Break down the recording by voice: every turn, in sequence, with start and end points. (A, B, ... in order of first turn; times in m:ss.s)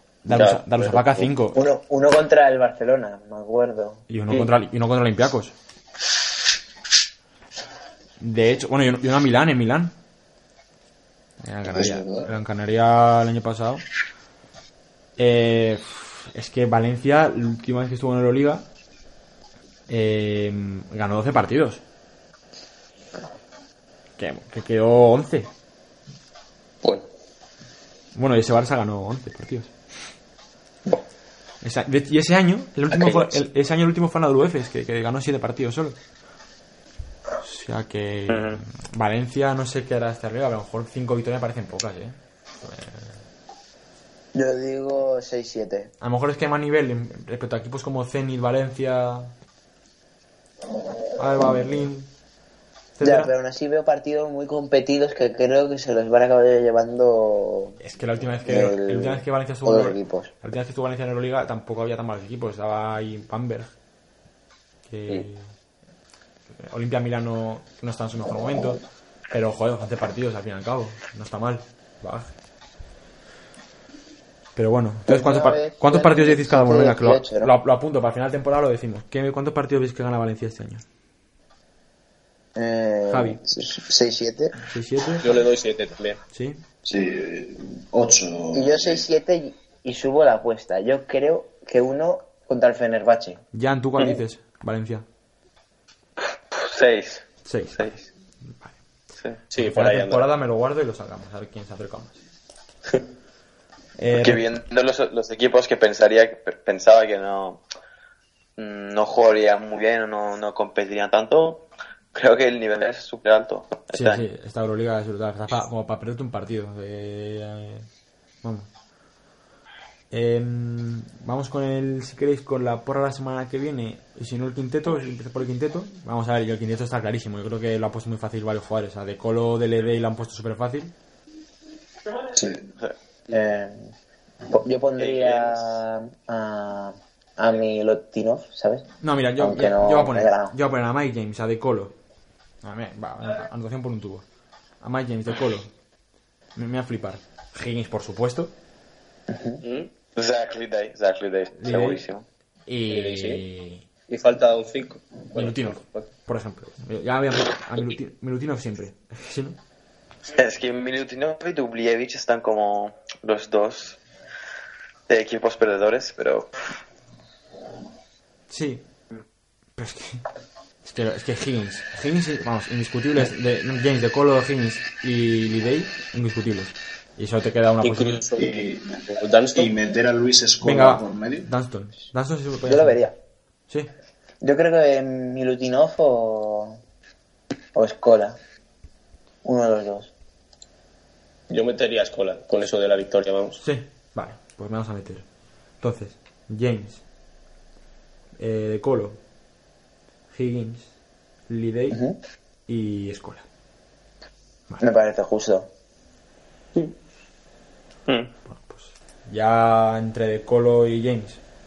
0:00.2-0:01.6 A
0:00.3-0:01.3 B
0:01.5-0:04.0 C
0:04.1-0:05.5 A
0:08.2-0:09.9 A
0:11.4-0:13.8 A
0:11.7-0:12.3 D
0:15.2-0:18.6 A
0:19.9-0:21.8 A
0:24.2-0:25.5 A
0:26.8-0:27.1 B
0:28.1-0:29.7 A
0:31.6-0:36.0 A
0:32.9-0:33.3 B
0:37.4-0:43.2 A
0:38.3-0:38.6 E
0:44.3-0:45.9 C
0:46.0-0:49.3 A
0:51.1-0:52.1 A
0:53.0-0:53.3 A
0:53.0-0:57.8 C
0:57.8-1:03.7 A
0:58.4-1:00.3 C
1:04.8-1:05.5 A
1:06.5-1:12.3 A
1:14.6-1:20.8 A
1:15.1-1:17.5 C
1:22.6-1:24.6 C
1:23.1-1:23.4 A
1:24.7-1:25.4 A
1:25.2-1:26.2 B
1:26.3-1:26.6 A
1:26.8-1:29.0 D
1:28.5-1:33.4 C
1:33.5-1:35.0 A
1:36.2-1:38.0 E
1:37.4-1:37.9 A
1:39.5-1:40.2 B
1:39.6-1:42.2 A
1:44.0-1:44.6 A
1:44.1-1:47.6 E
1:48.6-1:54.2 E
1:53.9-1:57.9 A
1:58.4-1:58.7 A
2:00.1-2:10.9 A
2:12.3-2:12.7 D
2:13.3-2:13.9 C
2:14.5-2:18.9 C
2:19.0-2:22.0 A
2:19.4-2:20.5 C
2:22.6-2:24.2 A
2:24.8-2:25.7 A
2:26.6-2:28.5 A
2:29.3-2:29.6 C
2:29.6-2:29.9 B
2:30.2-2:32.2 E
2:31.6-2:32.0 A
2:32.7-2:33.8 A
2:32.9-2:33.4 B
2:34.1-2:36.1 B
2:35.3-2:39.6 A
2:40.3-2:44.0 E
2:45.1-2:46.7 E
2:48.5-2:48.8 A
2:49.8-2:50.2 A
2:50.8-2:58.3 A
2:57.8-2:59.7 B
2:58.4-2:59.0 D
2:59.5-3:01.5 D
3:00.6-3:03.0 A
3:02.6-3:03.1 C
3:04.4-3:06.8 C
3:07.7-3:08.4 C
3:09.4-3:10.1 C
3:11.5-3:13.6 B
3:13.6-3:15.2 A
3:15.8-3:17.0 A
3:18.4-3:19.2 A
3:20.3-3:20.9 A
3:21.5-3:22.0 A
3:21.9-3:22.2 C
3:22.7-3:23.4 A
3:24.8-3:25.7 C
3:28.1-3:28.3 E
3:28.4-3:31.4 A